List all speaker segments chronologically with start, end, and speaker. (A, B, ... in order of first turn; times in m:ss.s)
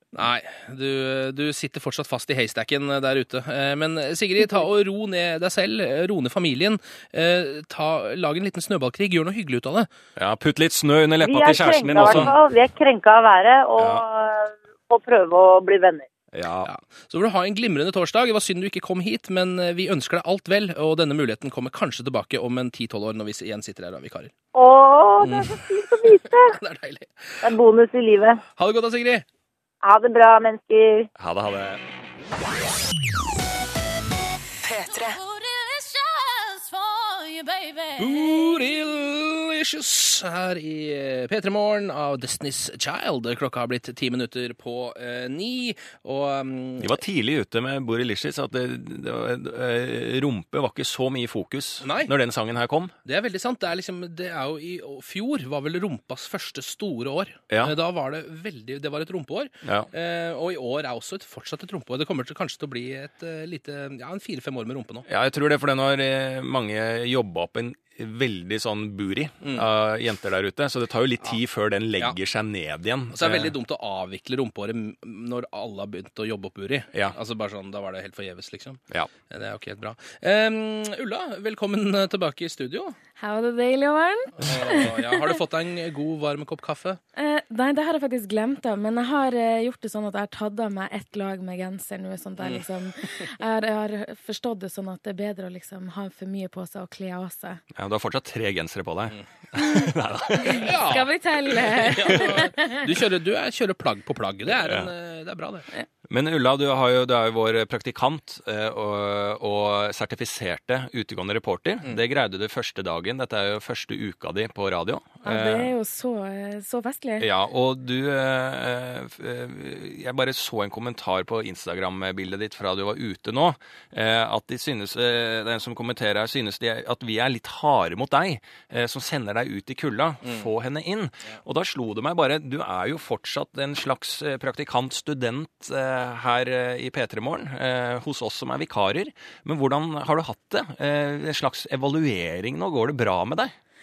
0:00.1-0:09.9 A
0:10.2-0:12.3 B
0:11.2-0:16.1 C
0:12.0-0:12.3 A
0:13.8-0:14.0 B
0:16.3-0:16.7 B
0:16.6-0:24.3 A
0:24.5-0:26.6 C
0:25.2-0:27.5 A
0:27.4-0:28.4 C
0:28.6-0:29.2 A
0:29.8-0:31.1 C
0:31.2-0:31.8 B
0:34.6-0:38.8 D
0:38.0-0:47.0 A
0:46.8-0:52.9 B
0:51.8-0:52.1 A
0:53.0-1:05.0 A
0:57.5-0:57.7 B
0:59.6-0:59.9 B
1:05.0-1:13.5 B
1:09.4-1:09.7 A
1:13.1-1:23.0 A
1:23.2-1:25.4 E
1:24.4-1:27.0 A
1:27.2-1:37.6 E
1:37.7-1:40.7 B
1:39.6-1:42.8 E
1:40.5-1:41.1 A
1:41.7-1:42.4 B
1:41.7-1:45.7 A
1:44.6-1:44.9 B
1:46.1-1:55.7 B
1:55.2-1:57.3 E
1:57.2-2:23.5 B
2:10.2-2:10.5 A